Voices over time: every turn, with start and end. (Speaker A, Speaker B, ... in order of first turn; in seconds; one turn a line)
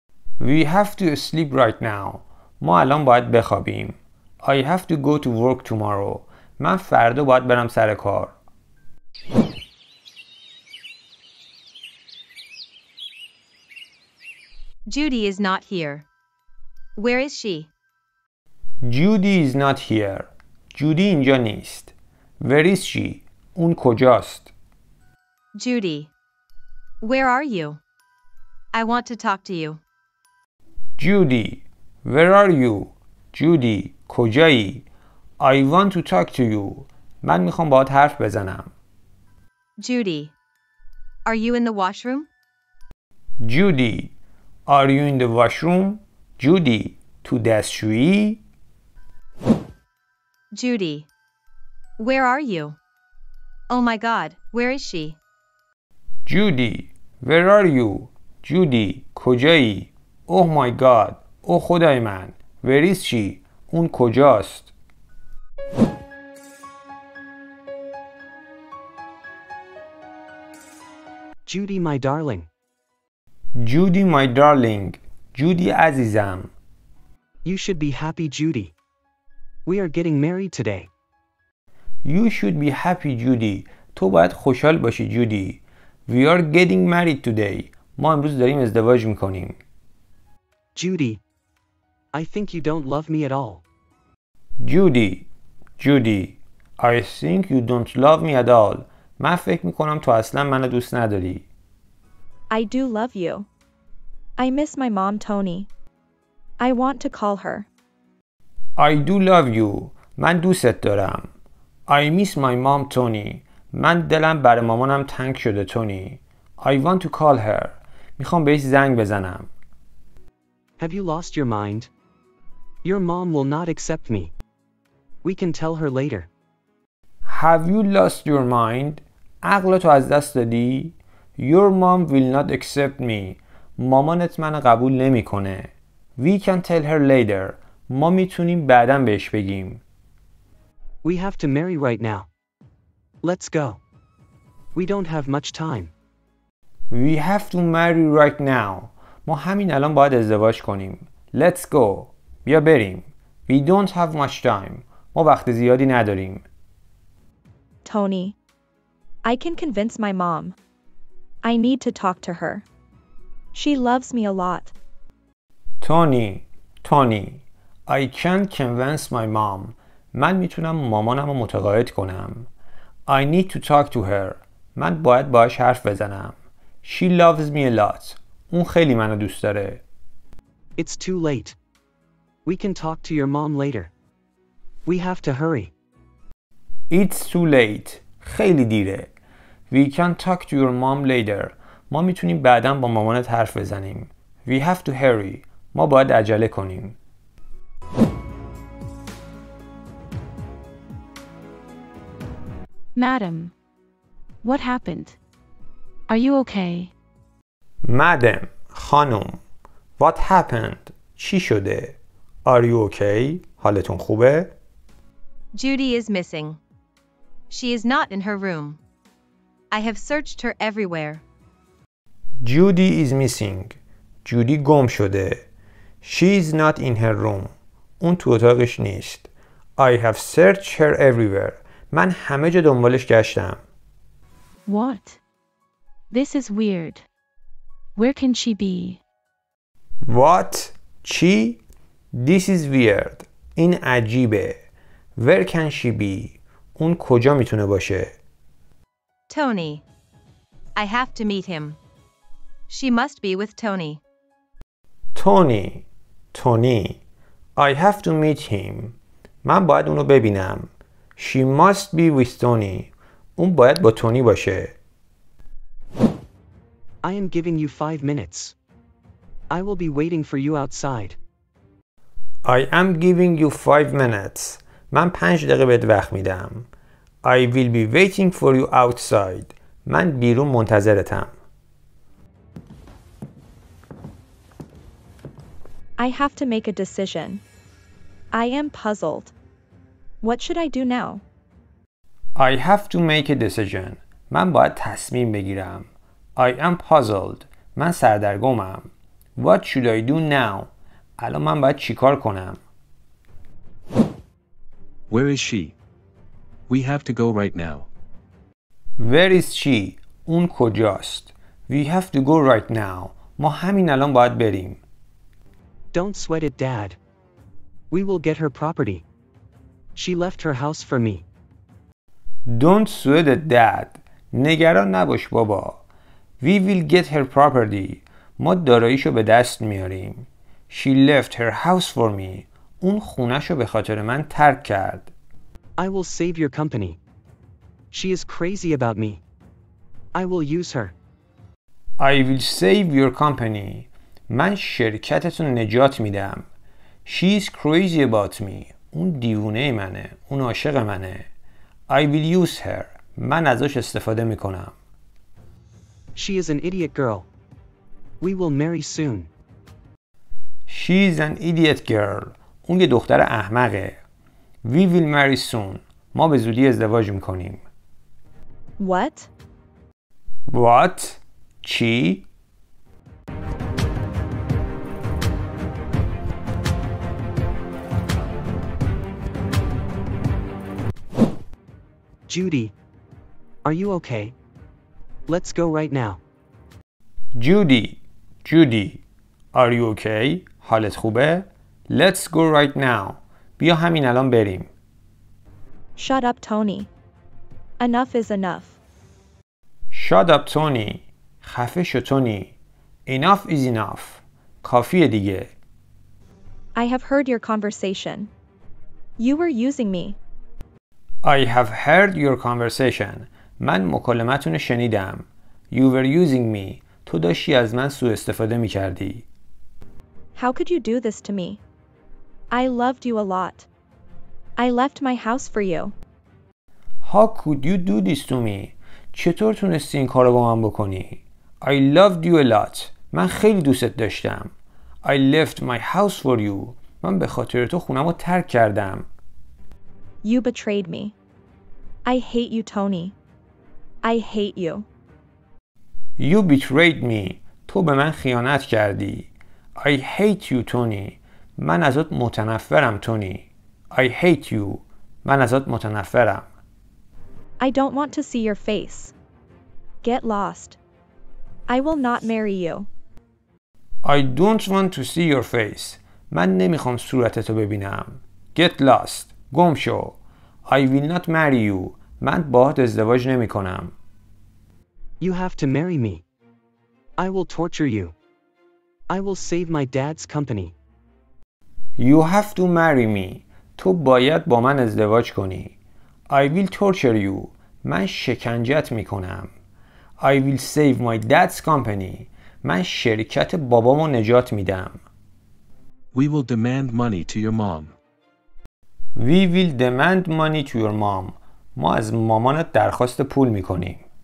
Speaker A: 0.4-8.3
Speaker B: 14.9-16.0
Speaker B: 17.0-17.7
Speaker A: 18.8-24.5
Speaker B: 25.6-26.1
Speaker B: 27.0-27.8
Speaker B: 28.7-29.8
Speaker A: 31.0-34.8
Speaker A: 35.4-38.7
Speaker B: 39.8-40.3
Speaker B: 41.2-42.3
Speaker A: 43.4-44.1
Speaker A: 44.7-48.4
Speaker B: 50.5-51.1
Speaker B: 52.0-52.8
Speaker B: 53.7-55.2
Speaker A: 56.2-64.7
Speaker C: 71.5-72.5
Speaker A: 73.5-76.5
Speaker C: 77.4-78.7
Speaker C: 79.7-80.9
Speaker A: 82.0-89.6
Speaker C: 90.7-91.2
Speaker C: 92.1-93.6
Speaker A: 94.6-95.3
Speaker A: 95.8-101.5
Speaker D: 102.5-103.5
Speaker D: 104.4-105.7
Speaker D: 106.6-107.7
Speaker A: 108.8-111.3
Speaker A: 111.9-119.5
Speaker C: 120.8-121.9
Speaker C: 122.8-124.3
Speaker C: 125.2-126.3
Speaker A: 127.2-139.8
Speaker C: 141.0-142.3
Speaker C: 143.2-143.8
Speaker C: 144.7-145.9
Speaker A: 146.9-156.4
Speaker D: 157.8-158.4
Speaker D: 159.2-160.6
Speaker D: 161.4-162.6
Speaker D: 163.5-164.7
Speaker A: 165.8-172.5
Speaker A: 173.1-179.8
Speaker C: 180.8-181.6
Speaker C: 182.4-183.9
Speaker C: 184.8-185.7
Speaker A: 186.9-189.1
Speaker A: 189.7-196.9
Speaker E: 202.9-203.5
Speaker E: 204.4-205.2
Speaker E: 206.1-206.9
Speaker A: 207.8-209.4
Speaker A: 210.0-214.5
Speaker B: 215.5-216.6
Speaker B: 217.5-218.8
Speaker B: 219.7-221.2
Speaker A: 222.4-225.4
Speaker A: 226.0-233.6
Speaker E: 234.7-235.2
Speaker E: 236.1-237.0
Speaker E: 237.9-239.0
Speaker A: 240.1-241.6
Speaker A: 242.1-244.6
Speaker A: 245.2-248.2
Speaker B: 249.3-249.8
Speaker B: 250.8-251.8
Speaker B: 252.7-254.0
Speaker A: 255.1-257.0
Speaker A: 257.6-264.7
Speaker C: 267.0-268.5
Speaker C: 269.5-271.2
Speaker A: 272.4-276.7
Speaker A: 277.2-281.3
Speaker D: 286.0-287.4
Speaker D: 288.3-289.3
Speaker D: 290.2-291.2
Speaker A: 292.4-302.6
Speaker F: 305.1-305.7
Speaker F: 306.7-307.9
Speaker A: 309.0-314.8
Speaker C: 315.9-317.0
Speaker C: 317.9-319.0
Speaker C: 319.9-321.2
Speaker A: 322.4-325.8
Speaker A: 326.4-335.1
Speaker C: 335.8-337.0
Speaker C: 337.9-339.2
Speaker C: 340.1-340.9
Speaker A: 342.0-346.4
Speaker A: 347.0-351.3
Speaker A: 351.9-354.7
Speaker C: 356.1-357.3
Speaker C: 358.2-359.3
Speaker A: 360.7-364.0
Speaker A: 364.6-367.6
Speaker D: 368.8-369.3
Speaker A: 370.5-372.2
Speaker C: 382.3-382.7
Speaker C: 383.6-384.3
Speaker C: 385.3-386.2
Speaker A: 387.4-389.0
Speaker A: 389.5-394.7
Speaker D: 395.9-396.9
Speaker D: 397.8-398.8
Speaker A: 399.9-402.5
Speaker A: 403.1-405.5
Speaker D: 406.7-408.3
Speaker D: 409.2-410.2
Speaker A: 411.2-419.2
Speaker D: 420.3-421.6
Speaker D: 422.5-423.7
Speaker D: 424.6-425.9
Speaker A: 427.0-434.5
Speaker A: 435.0-439.1
Speaker D: 440.2-441.1
Speaker D: 442.0-443.1
Speaker D: 444.0-444.9
Speaker A: 446.2-456.5
Speaker D: 457.6-459.1
Speaker D: 460.0-460.8
Speaker D: 461.7-462.9
Speaker A: 464.0-473.9
Speaker C: 475.2-476.2
Speaker C: 477.2-478.1
Speaker C: 479.1-480.7
Speaker A: 482.0-485.7
Speaker A: 486.3-489.5
Speaker A: 490.2-495.0
Speaker F: 496.1-497.9
Speaker A: 499.1-504.0